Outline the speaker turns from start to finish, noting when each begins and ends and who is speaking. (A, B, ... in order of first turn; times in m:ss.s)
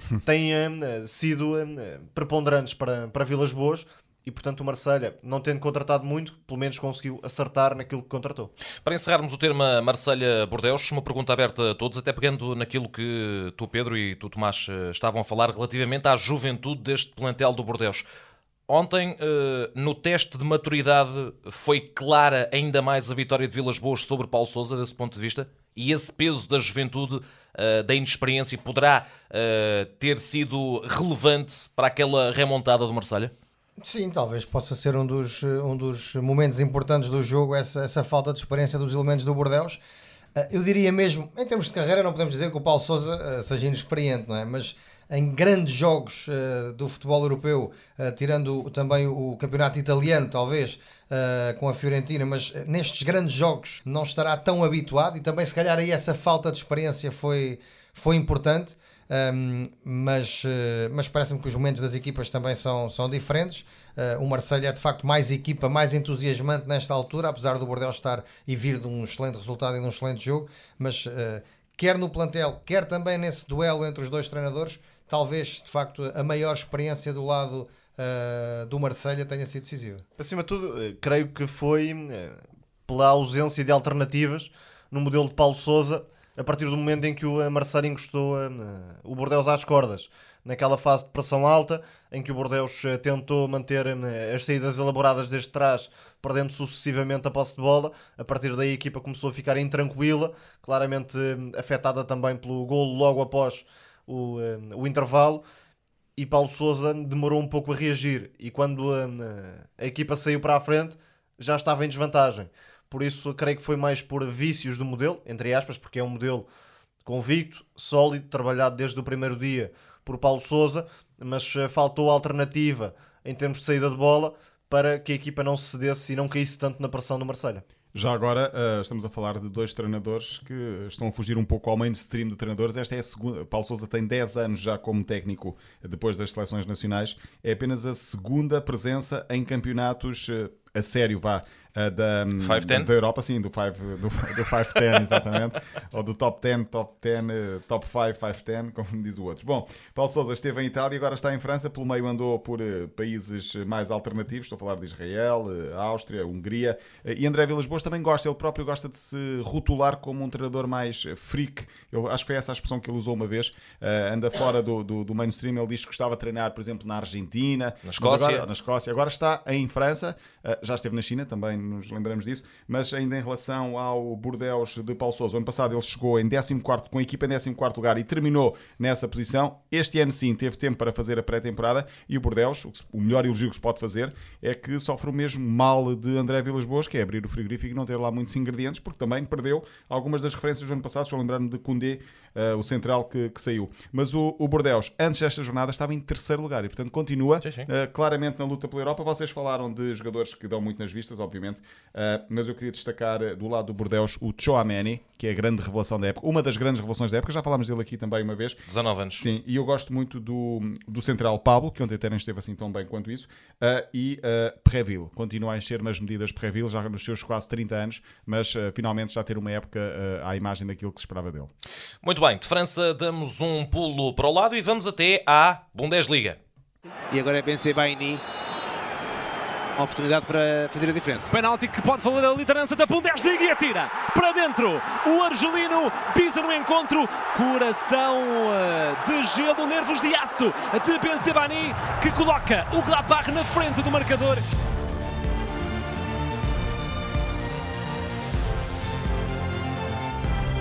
0:00.2-0:08.5 A
0:08.8-0:18.0 B
0:18.7-0:33.3 B
0:33.8-0:39.8 C
0:40.4-1:20.0 C
1:20.2-1:45.4 A
1:46.2-1:56.5 A
1:57.0-2:07.6 A
2:07.9-3:28.6 D
2:22.4-2:22.9 B
2:47.8-2:48.4 B
3:17.4-3:17.7 B
3:28.7-3:29.2 B
3:29.2-3:41.5 D
3:42.0-3:46.4 B
3:47.1-3:48.2 E
3:49.8-3:51.4 E
3:51.3-4:04.4 F